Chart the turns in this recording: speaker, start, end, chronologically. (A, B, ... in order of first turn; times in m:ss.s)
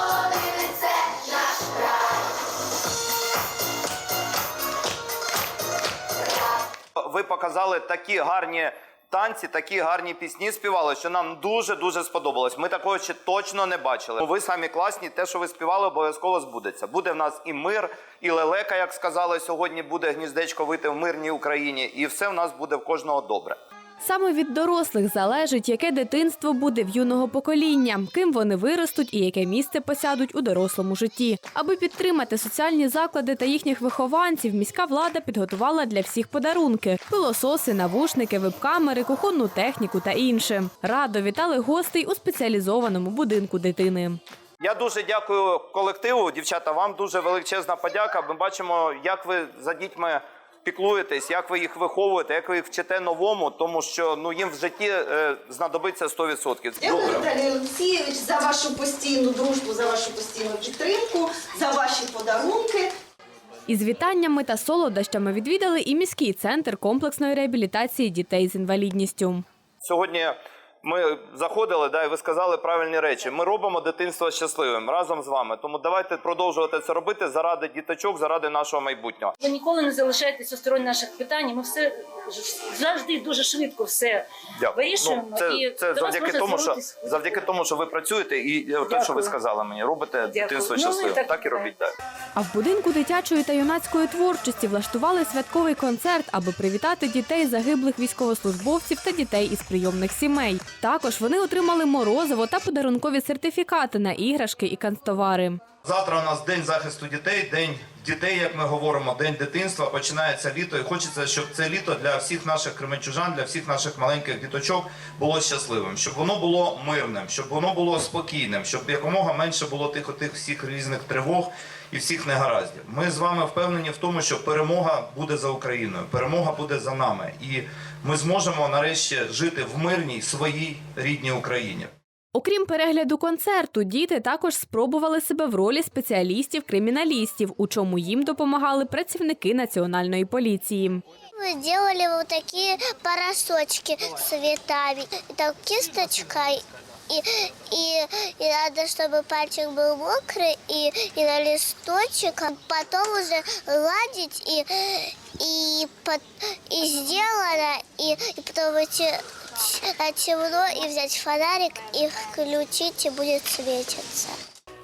0:07.0-0:23.6 A
0:24.0-0:44.2 B
0:44.6-0:57.3 A
0:56.8-1:02.9 C
1:03.7-1:09.4 B
1:09.8-1:19.3 A
1:19.4-1:27.2 D
1:24.6-1:31.9 A
1:28.8-1:29.3 D
1:30.2-1:31.7 D
1:32.3-1:45.6 B
1:45.8-2:11.9 A
2:12.3-2:21.0 B
2:21.3-2:44.4 E